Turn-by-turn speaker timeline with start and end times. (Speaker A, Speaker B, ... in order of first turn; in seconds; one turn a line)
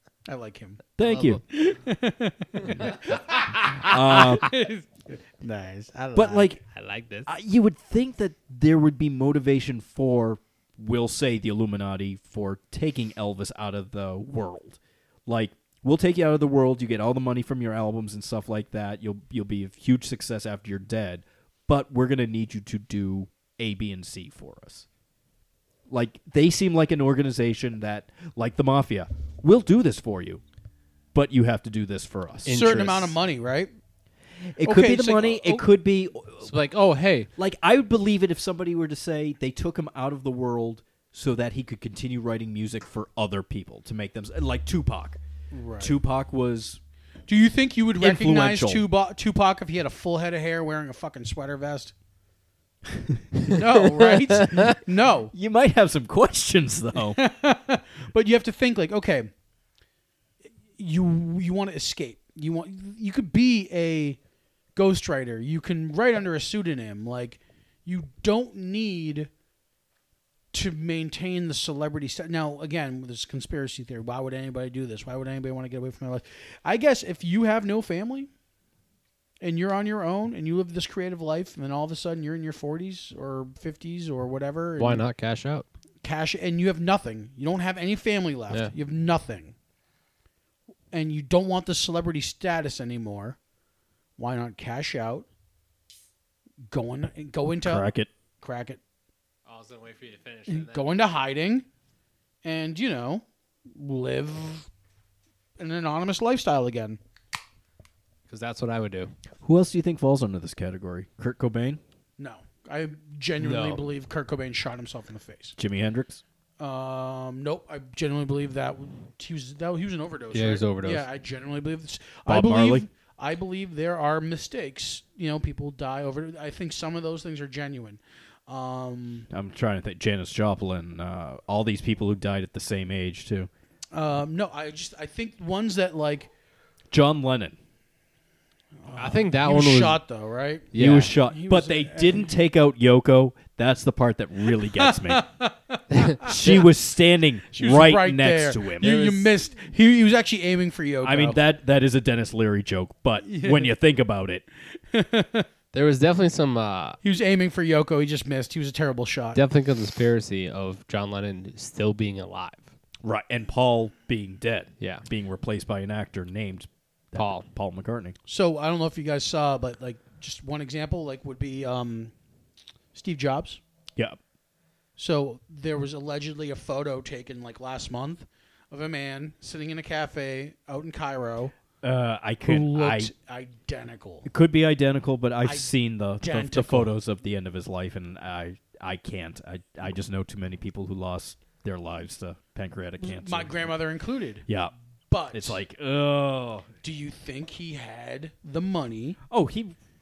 Speaker A: 0.3-0.8
Speaker B: 1.0-1.4
Speaker C: 1.0-1.4
Speaker A: 1.5-6.6
Speaker B: 2.7-3.0
Speaker B: 3.8-4.5
Speaker B: 6.2-6.6
Speaker C: 6.7-7.3
Speaker B: 7.3-24.9
Speaker B: 25.9-30.4
Speaker B: 31.1-32.9
Speaker C: 32.4-33.1
Speaker A: 32.5-33.7
Speaker B: 34.5-36.5
Speaker A: 34.6-35.7
Speaker C: 36.4-37.3
Speaker B: 37.4-45.2
Speaker A: 45.5-46.0
Speaker B: 45.8-46.8
Speaker A: 47.3-51.9
Speaker B: 48.0-48.9
Speaker B: 52.9-53.2
Speaker C: 53.4-54.7
Speaker A: 53.5-55.3
Speaker B: 55.3-57.2
Speaker A: 57.1-59.3
Speaker A: 60.8-64.2
Speaker A: 64.8-69.3
Speaker A: 70.5-78.3
Speaker A: 79.4-85.0
Speaker C: 84.8-85.7
Speaker A: 86.0-89.5
Speaker A: 90.9-93.4
Speaker A: 94.2-95.3
Speaker A: 96.7-97.9
Speaker B: 97.6-98.1
Speaker A: 98.4-98.8
Speaker C: 99.5-100.9
Speaker A: 100.5-101.7
Speaker A: 102.4-104.7
Speaker A: 105.6-107.0
Speaker C: 108.3-109.1
Speaker B: 109.4-111.8
Speaker A: 112.2-115.6
Speaker C: 113.4-113.8
Speaker B: 115.6-116.2
Speaker A: 116.6-129.3
Speaker C: 120.3-121.1
Speaker B: 122.3-122.9
Speaker B: 129.3-133.5
Speaker A: 133.9-136.3
Speaker B: 136.9-137.6
Speaker A: 138.8-140.7
Speaker C: 138.9-140.0
Speaker C: 140.7-141.1
Speaker B: 140.8-145.2
Speaker A: 141.2-142.3
Speaker A: 144.6-146.7
Speaker C: 145.9-146.2
Speaker B: 146.2-149.0
Speaker A: 147.5-151.4
Speaker C: 148.8-149.3
Speaker B: 151.0-154.4
Speaker A: 153.2-153.7
Speaker A: 154.8-155.5
Speaker C: 155.7-157.0
Speaker A: 157.0-159.4
Speaker C: 159.3-162.7
Speaker B: 163.0-168.2
Speaker C: 164.8-165.1
Speaker C: 167.2-167.5
Speaker A: 168.3-172.1
Speaker A: 172.9-173.6
Speaker A: 175.0-181.5
Speaker B: 181.8-183.1
Speaker A: 182.4-184.3
Speaker B: 184.3-193.7
Speaker A: 185.4-186.9
Speaker A: 193.0-194.5
Speaker B: 194.5-194.7
Speaker A: 195.1-195.6
Speaker B: 195.3-196.7
Speaker A: 196.8-199.2
Speaker B: 199.3-199.8